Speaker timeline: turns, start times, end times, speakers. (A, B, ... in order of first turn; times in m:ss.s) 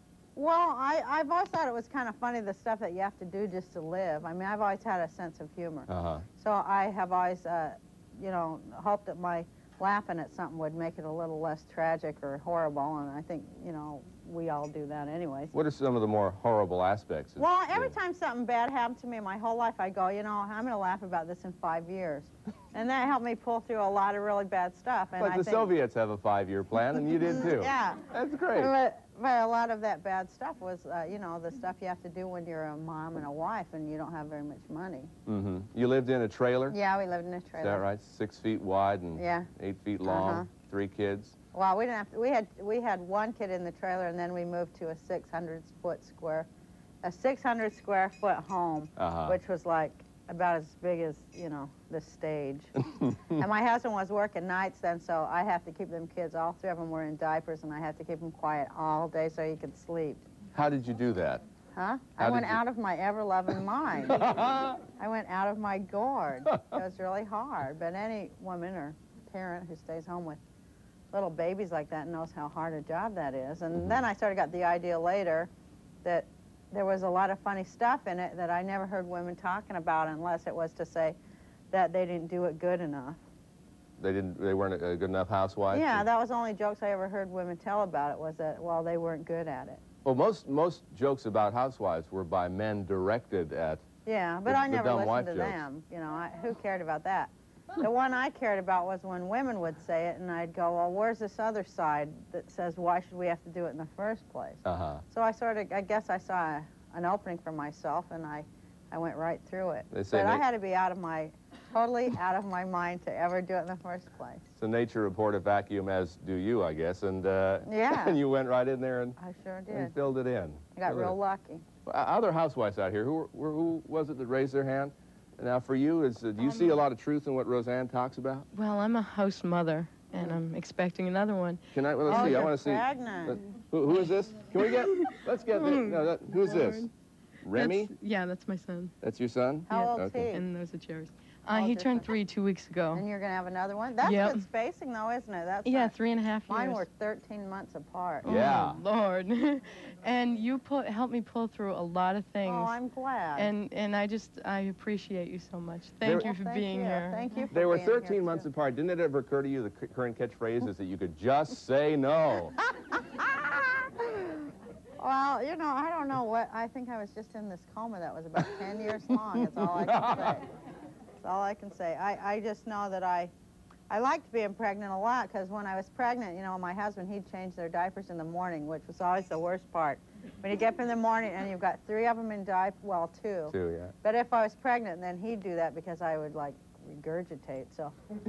0:00.3-0:15.5 A
0:05.9-0:06.2 B
0:15.5-0:17.9 B
0:17.4-0:25.7 A
0:25.2-0:28.7 B
0:27.1-0:35.1 A
0:35.2-0:36.8 B
0:36.7-0:37.8 A
0:37.6-0:41.4 B
0:39.2-0:39.5 A
0:40.0-0:40.5 A
0:41.5-0:46.5 A
0:47.0-0:52.7 A
0:49.0-0:49.4 B
0:53.3-1:00.2 A
1:00.5-1:01.4 B
1:01.7-1:04.3 A
1:02.2-1:02.6 B
1:04.1-1:04.8 B
1:04.8-1:10.4 A
1:11.1-1:15.5 A
1:16.0-1:21.2 A
1:21.7-1:23.2 A
1:24.0-1:26.0 B
1:25.7-1:29.8 A
1:30.0-1:33.8 B
1:34.0-1:54.4 A
1:34.5-1:35.7 B
1:44.6-1:45.0 B
1:49.9-1:50.4 B
1:54.6-1:59.2 B
1:57.7-1:58.2 A
1:59.2-1:59.9 A
1:59.7-2:01.2 B
2:00.7-2:01.6 A
2:01.8-2:08.5 B
2:06.4-2:06.8 C
2:08.5-2:12.4 C
2:11.7-2:16.9 B
2:12.1-2:13.4 A
2:15.5-2:16.9 C
2:17.4-2:17.9 B
2:17.5-2:18.9 C
2:19.0-2:20.3 B
2:19.7-2:20.5 A
2:19.7-2:23.0 C
2:21.5-2:22.2 A
2:22.9-2:26.0 A
2:24.0-2:24.4 C
2:25.6-2:26.8 C
2:26.5-2:28.4 A
2:28.2-2:32.7 C
2:28.2-2:28.8 B
2:32.4-2:33.5 A
2:33.4-2:37.2 C
2:36.0-2:38.5 A
2:36.0-2:36.3 B
2:37.5-2:42.6 B
2:45.0-2:50.5 A
2:49.6-2:50.4 B
2:51.2-2:53.3 A
2:53.9-3:07.9 A
3:03.5-3:03.9 B